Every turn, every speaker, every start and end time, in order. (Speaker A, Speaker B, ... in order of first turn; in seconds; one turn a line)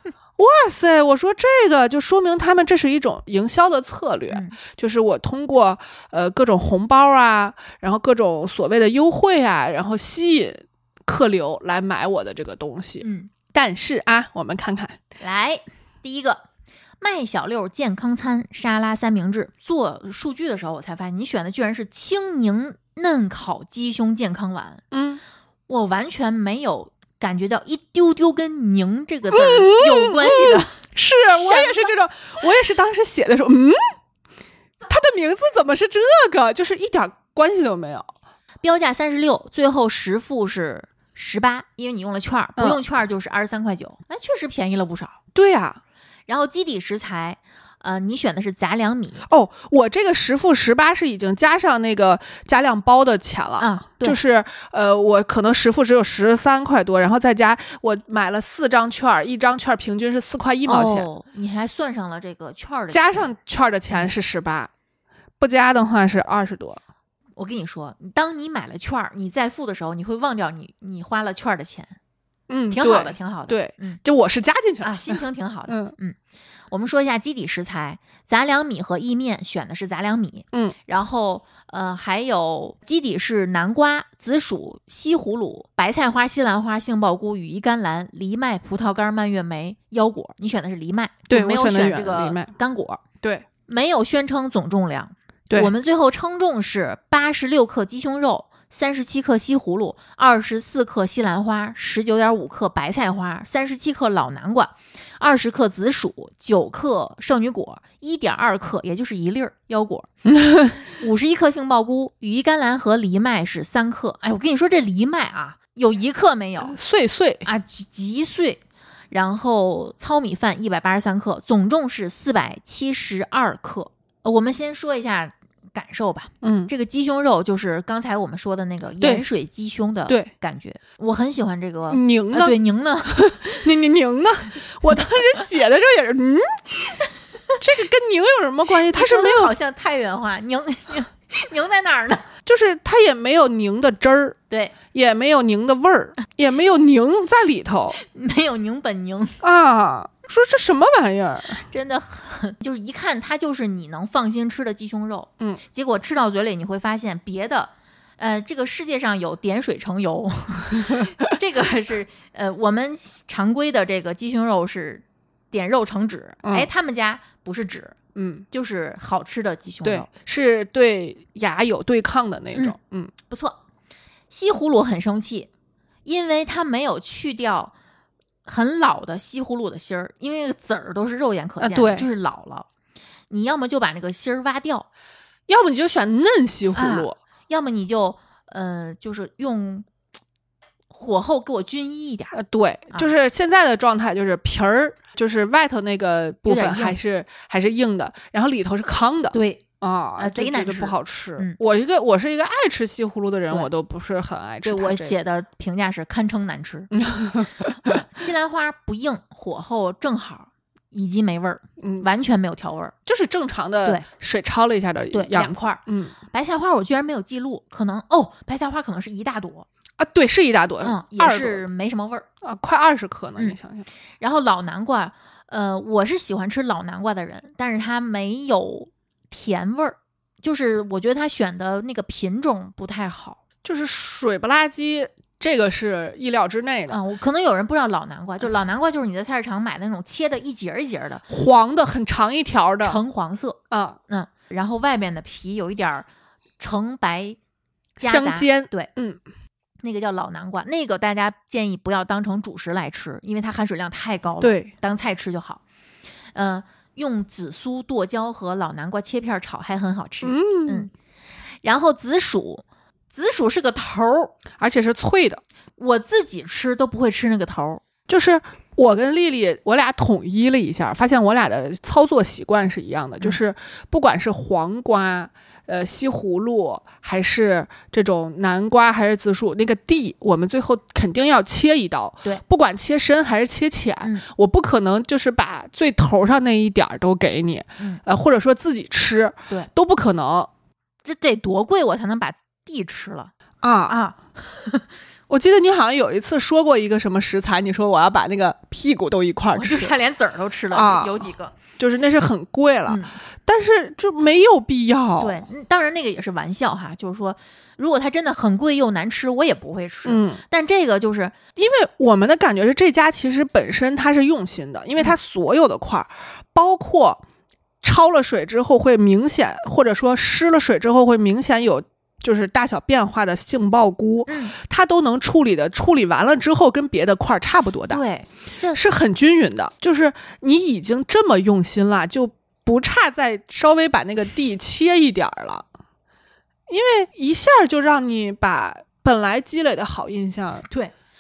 Speaker A: 0.4-15.0
Speaker B: 4.3-4.6
Speaker B: 13.0-13.3
Speaker B: 15.2-16.4
Speaker B: 17.0-24.8
Speaker A: 24.9-25.2
Speaker B: 25.7-31.9
Speaker A: 29.3-33.8
Speaker A: 34.8-38.1
Speaker B: 38.6-45.2
Speaker A: 45.4-45.8
Speaker B: 46.3-49.3
Speaker A: 49.3-61.1
Speaker B: 53.6-54.2
Speaker B: 60.7-63.3
Speaker A: 62.9-64.7
Speaker A: 65.4-66.8
Speaker B: 67.4-72.0
Speaker A: 72.5-75.9
Speaker B: 72.7-74.0
Speaker B: 74.8-76.2
Speaker B: 76.7-93.0
Speaker A: 91.3-92.5
Speaker B: 93.7-110.1
Speaker A: 110.4-110.7
Speaker B: 110.8-116.8
Speaker A: 116.7-117.5
Speaker B: 117.5-118.6
Speaker B: 119.1-133.6
Speaker A: 126.4-126.7
Speaker A: 131.9-132.6
Speaker A: 133.1-136.6
Speaker A: 137.6-139.5
Speaker B: 138.9-142.3
Speaker A: 142.5-144.4
Speaker A: 144.9-148.0
Speaker B: 148.0-149.4
Speaker A: 149.4-151.6
Speaker B: 151.7-168.0
Speaker A: 166.4-166.7
Speaker A: 168.2-168.5
Speaker B: 168.5-170.1
Speaker A: 169.8-173.1
Speaker B: 173.3-173.6
Speaker B: 174.3-175.5
Speaker B: 176.1-177.7
Speaker B: 178.4-182.7
Speaker A: 181.6-182.1
Speaker B: 183.3-184.9
Speaker A: 185.5-187.2
Speaker B: 186.7-189.9
Speaker B: 190.9-192.4
Speaker A: 192.3-205.2
Speaker B: 196.5-197.0
Speaker B: 199.3-199.6
Speaker B: 200.2-201.6
Speaker B: 204.6-206.9
Speaker A: 207.0-207.7
Speaker B: 207.8-212.9
Speaker A: 211.8-212.1
Speaker A: 213.1-216.2
Speaker B: 215.1-219.7
Speaker A: 220.0-221.7
Speaker B: 220.8-222.3
Speaker A: 222.4-223.9
Speaker B: 224.2-233.4
Speaker A: 233.6-237.0
Speaker B: 236.9-241.2
Speaker A: 241.3-243.0
Speaker B: 242.8-246.1
Speaker A: 243.7-244.0
Speaker B: 246.6-247.4
Speaker B: 248.0-248.9
Speaker A: 248.0-249.2
Speaker B: 249.8-255.6
Speaker A: 254.4-254.7
Speaker B: 256.4-260.9
Speaker A: 260.2-260.9
Speaker B: 261.6-264.3
Speaker A: 264.6-265.4
Speaker B: 265.8-267.8
Speaker A: 268.1-290.5
Speaker B: 291.1-293.3
Speaker A: 293.6-294.0
Speaker B: 293.9-294.9
Speaker A: 295.3-299.9
Speaker B: 299.5-301.6
Speaker A: 300.7-305.5
Speaker B: 302.9-303.2
Speaker B: 305.2-311.4
Speaker A: 310.1-310.4
Speaker A: 311.6-317.2
Speaker A: 317.8-328.0
Speaker B: 324.3-324.6
Speaker B: 327.9-328.8
Speaker A: 328.7-335.7
Speaker A: 336.7-340.7
Speaker B: 340.7-340.9